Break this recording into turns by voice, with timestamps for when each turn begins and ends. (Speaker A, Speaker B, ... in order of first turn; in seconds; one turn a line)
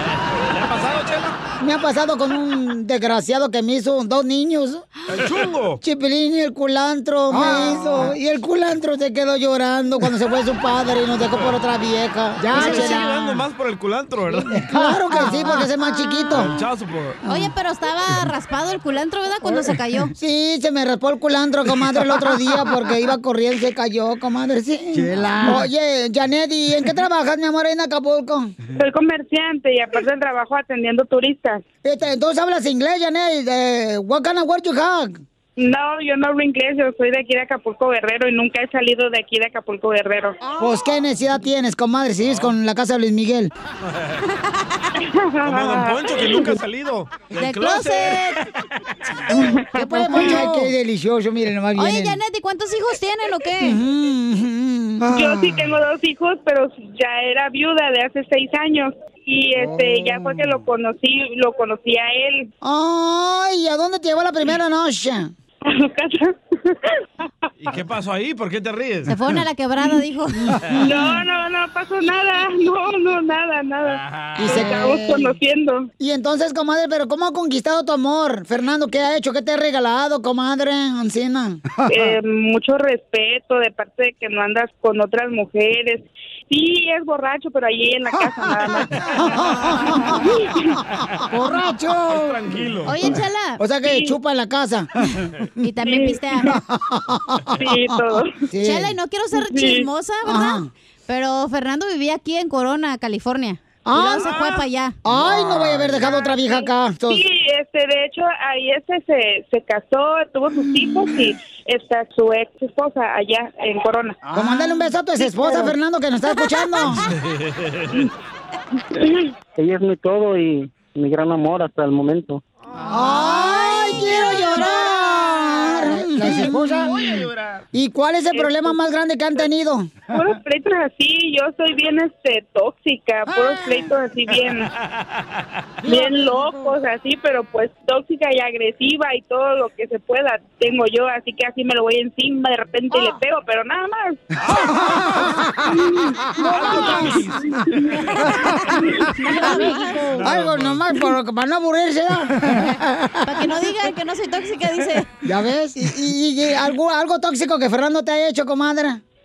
Speaker A: 0.3-1.4
Speaker B: 1.6-4.9
Speaker A: 5.1-5.8
Speaker B: 5.8-13.4
Speaker C: 7.3-8.0
Speaker A: 11.3-11.6
Speaker A: 12.5-14.8
Speaker C: 12.6-12.9
Speaker B: 14.6-16.6
Speaker C: 15.1-16.2
Speaker A: 16.3-17.2
Speaker C: 17.3-20.1
Speaker B: 19.5-28.6
Speaker D: 28.8-31.6
Speaker B: 31.8-35.2
Speaker D: 35.6-40.4
Speaker B: 40.6-43.5
Speaker A: 42.2-42.5
Speaker D: 45.0-46.5
Speaker A: 45.5-48.4
Speaker C: 47.4-48.4
Speaker D: 49.5-50.4
Speaker B: 49.8-52.2
Speaker C: 50.1-50.7
Speaker C: 51.8-53.8
Speaker B: 53.6-55.6
Speaker D: 55.1-62.5
Speaker B: 59.6-60.5
Speaker B: 62.6-65.3
Speaker D: 65.7-66.8
Speaker A: 67.6-69.2
Speaker C: 69.1-70.6
Speaker B: 70.5-71.0
Speaker D: 70.8-75.9
Speaker A: 73.8-74.7
Speaker B: 74.4-75.4
Speaker B: 76.0-82.1
Speaker D: 81.9-89.7
Speaker B: 88.2-90.2
Speaker D: 90.2-90.8
Speaker B: 91.3-92.4
Speaker A: 92.0-93.1
Speaker C: 92.9-93.6
Speaker B: 93.6-94.9
Speaker D: 93.8-94.1
Speaker C: 95.6-96.6
Speaker D: 95.8-96.2
Speaker B: 96.4-98.9
Speaker D: 97.6-98.3
Speaker C: 98.6-105.0
Speaker D: 99.4-99.9
Speaker B: 100.2-100.7
Speaker B: 103.8-104.3
Speaker A: 104.2-106.0
Speaker B: 105.0-107.2
Speaker D: 106.0-114.2
Speaker B: 110.7-111.2
Speaker B: 114.3-117.0
Speaker C: 116.3-116.9
Speaker E: 119.6-122.4
Speaker A: 122.7-124.6
Speaker B: 122.9-130.0
Speaker C: 123.2-125.9
Speaker A: 126.8-127.6
Speaker D: 128.3-128.8
Speaker D: 130.1-134.7
Speaker B: 135.8-136.8
Speaker D: 135.9-144.2
Speaker A: 144.4-145.4
Speaker B: 144.5-145.8
Speaker D: 145.7-146.0
Speaker B: 146.3-147.3
Speaker A: 146.4-148.6
Speaker B: 148.2-153.4
Speaker C: 149.2-150.1
Speaker A: 149.9-150.9
Speaker C: 153.2-155.1
Speaker B: 155.2-159.0